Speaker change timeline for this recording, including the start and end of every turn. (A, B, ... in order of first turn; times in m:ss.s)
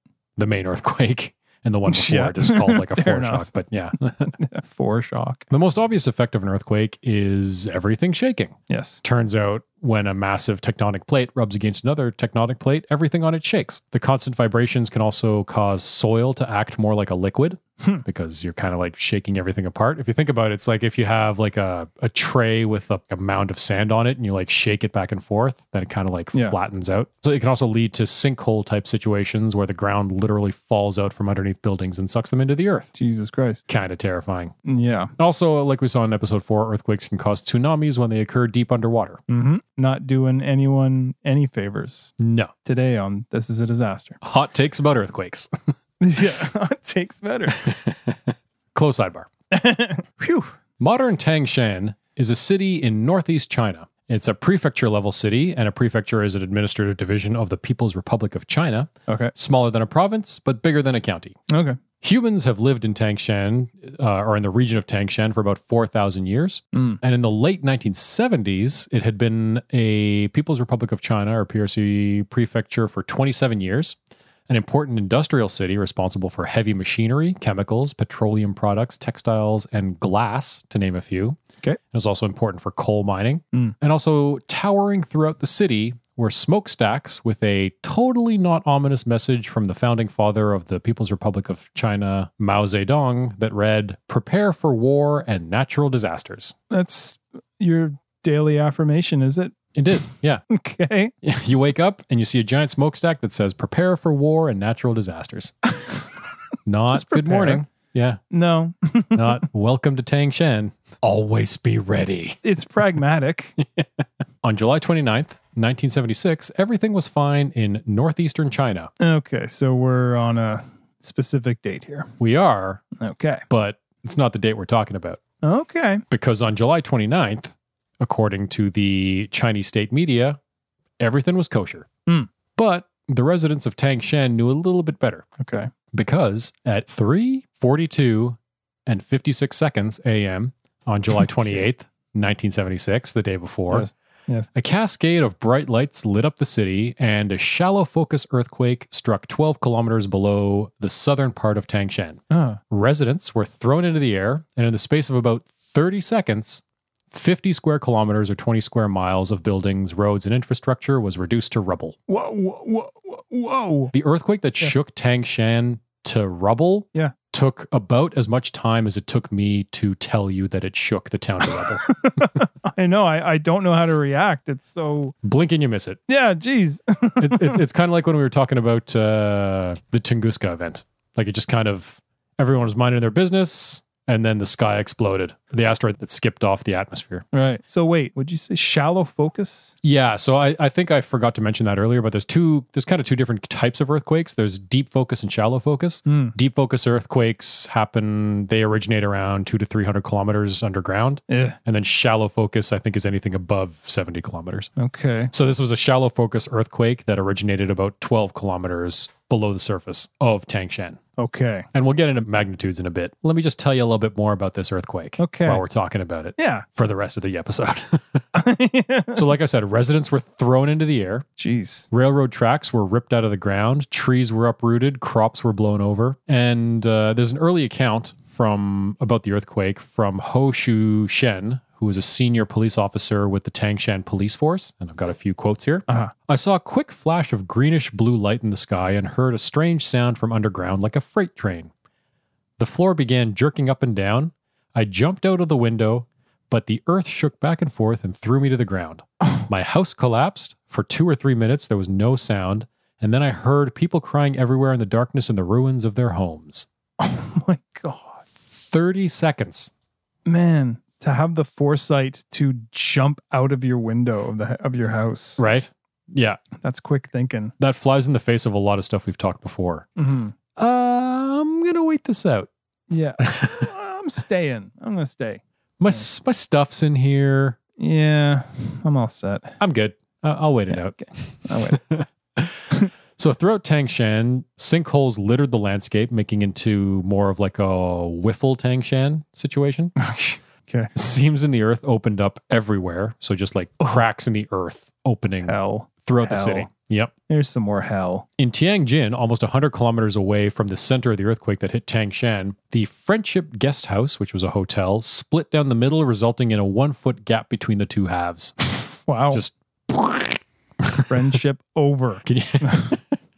0:00.4-0:04.4 A
0:01.9-0:03.5 B
0:04.3-0:05.5 B
0:05.5-0:32.9 A
0:08.7-0:09.0 B
0:33.0-0:33.6 B
0:33.7-0:34.5 A
0:34.6-0:35.1 B
0:35.2-0:39.2 A
0:39.3-0:42.1 B
0:42.2-0:42.5 A
0:42.6-0:44.2 B
0:44.2-0:45.7 A
0:46.0-0:47.6 B
0:47.5-0:49.3 A
0:49.5-0:50.5 B
0:50.8-1:01.4 A
0:59.1-0:59.3 B
1:01.5-1:01.8 B
1:02.0-1:14.0 A
1:06.7-1:07.0 B
1:14.5-1:36.6 A
1:36.7-1:39.6 B
1:39.7-1:40.4 A
1:40.5-1:41.1 B
1:41.2-1:45.5 A
1:46.7-1:48.2 A
1:46.9-1:47.6 B
1:48.3-1:49.4 B
1:49.1-1:52.4 A
1:52.4-1:53.6 B
1:53.6-1:58.9 A
1:59.0-2:02.1 B
2:02.2-2:02.8 A
2:03.0-2:03.4 B
2:03.5-2:05.2 A
2:05.4-2:06.0 B
2:06.1-2:10.4 A
2:11.0-2:11.9 A
2:12.6-2:15.3 A
2:15.4-2:15.7 B
2:15.9-2:23.9 A
2:23.7-2:24.5 B
2:24.5-2:42.0 A
2:32.3-2:32.6 B
2:42.1-2:43.9 B
2:43.9-2:52.5 A
2:51.9-2:55.2 B
2:55.2-2:56.0 A
2:56.1-2:57.6 B
2:57.2-3:07.3 A
3:07.3-3:09.8 B
3:09.8-3:24.7 A
3:16.1-3:16.3 B
3:21.3-3:21.6 B
3:24.8-3:25.3 B
3:25.3-3:31.0 A
3:31.2-3:31.7 B
3:31.7-3:38.3 A
3:35.2-3:35.6 B
3:36.4-3:36.7 B
3:38.3-3:39.2 B
3:39.1-3:41.3 A
3:41.4-3:41.9 B
3:41.9-4:01.7 A
4:02.6-4:16.7 A
4:17.0-4:18.2 B
4:18.5-4:19.7 A
4:20.2-4:25.4 B
4:25.4-4:26.4 A
4:26.6-4:27.5 B
4:27.6-4:29.9 A
4:30.0-4:30.4 B
4:30.6-4:32.5 A
4:32.9-4:35.4 B
4:33.2-4:33.7 A
4:35.8-4:37.6 A
4:37.8-4:39.6 B
4:39.6-4:50.0 A
4:41.0-4:41.8 B
4:50.0-4:50.9 B
4:51.0-4:57.1 A
4:55.4-4:56.7 B
4:57.3-4:58.3 B
4:58.4-5:08.6 A
5:09.1-5:09.4 B
5:09.3-5:11.4 A
5:11.1-5:13.0 B
5:12.2-5:13.2 A